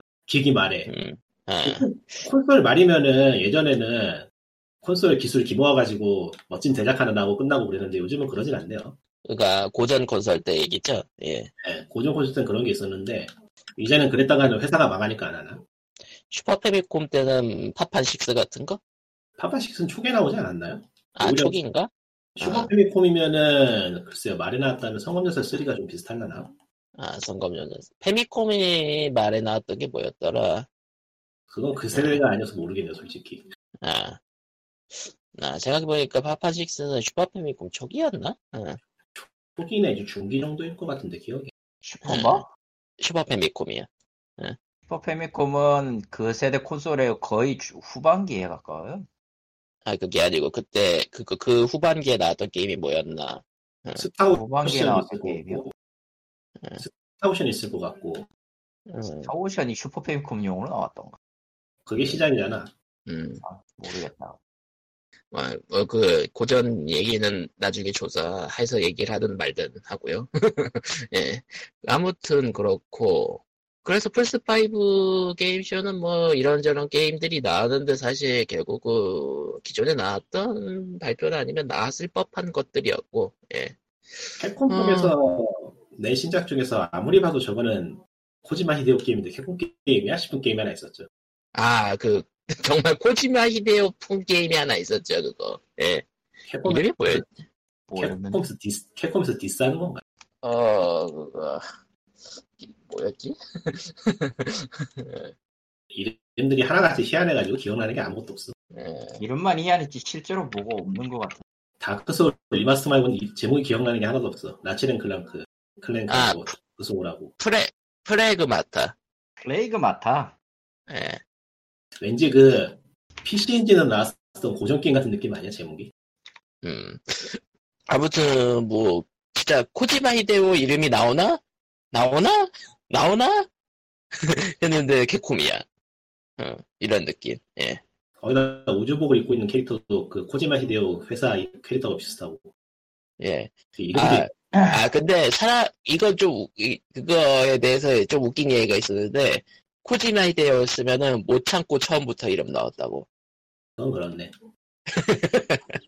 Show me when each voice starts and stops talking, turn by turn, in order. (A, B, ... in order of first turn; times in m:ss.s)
0:00.3-0:00.9 A
0:00.9-0:02.2 B
0:01.6-0:04.3 A
0:04.8-0:09.0 A
0:09.2-0:11.5 B
0:11.6-0:15.6 A
0:16.3-0:18.8 B
0:19.4-0:21.6 A
0:21.2-0:22.7 B
0:22.4-0:26.5 A
0:27.0-0:30.7 B
0:31.5-0:33.4 A
0:31.9-0:32.2 B
0:33.8-0:34.2 B
0:34.9-0:38.8 B
0:39.2-0:41.5 A
0:41.8-0:42.5 C
0:42.0-0:42.4 B
0:43.0-0:44.6 B
0:44.9-0:49.1 C
0:49.8-0:54.1 B
0:54.0-0:55.7 A
0:54.3-0:55.6 C
0:56.8-0:58.3 A
0:58.9-0:59.3 B
0:59.2-1:01.2 C
1:01.9-1:02.7 A
1:03.1-1:03.4 B
1:03.4-1:04.4 C
1:05.3-1:25.2 B
1:24.4-1:31.1 A
1:31.6-1:36.1 B
1:36.5-1:37.3 A
1:36.6-1:37.3 B
1:37.9-1:38.4 C
1:38.0-1:40.0 A
1:40.4-1:41.6 B
1:42.3-1:45.3 B
1:45.9-1:48.5 A
1:48.7-1:49.2 B
1:49.2-1:51.4 C
1:51.8-1:57.3 A
1:56.1-1:56.6 B
1:57.4-1:59.0 B
1:59.4-2:00.4 C
2:00.9-2:01.2 B
2:02.0-2:05.9 A
2:06.6-2:11.4 B
2:11.9-2:13.5 B
2:14.2-2:15.6 B
2:16.4-2:17.8 B
2:18.2-2:22.5 A
2:23.2-2:33.1 B
2:23.8-2:24.3 A
2:33.8-2:34.3 A
2:34.9-2:35.8 B